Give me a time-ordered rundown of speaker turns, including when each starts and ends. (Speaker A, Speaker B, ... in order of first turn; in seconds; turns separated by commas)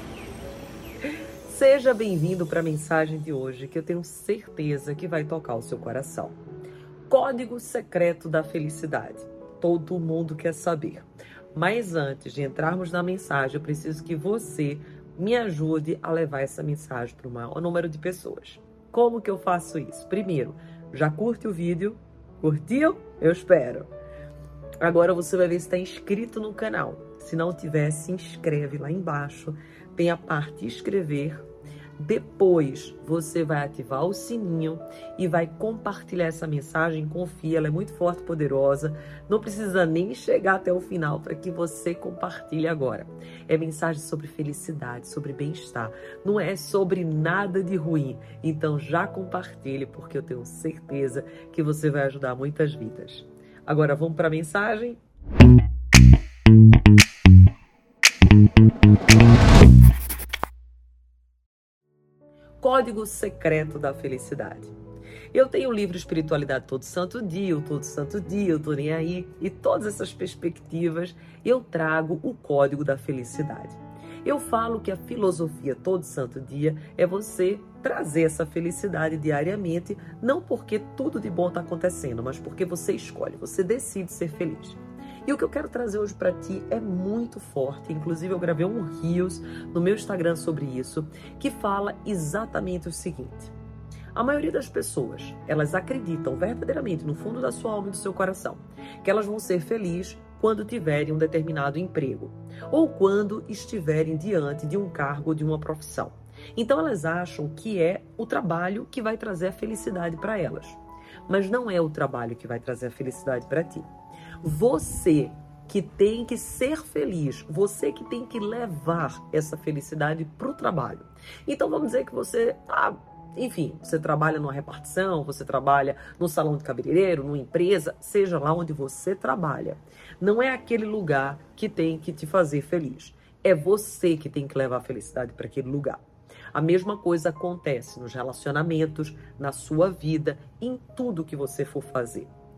Speaker A: 1.4-6.4, Speaker A: 7.1-23.9, Speaker A: 24.8-31.4, Speaker A: 32.0-55.0, Speaker A: 62.6-64.7, Speaker A: 65.3-93.5, Speaker A: 94.1-113.9, Speaker A: 114.4-136.0, Speaker A: 136.5-142.3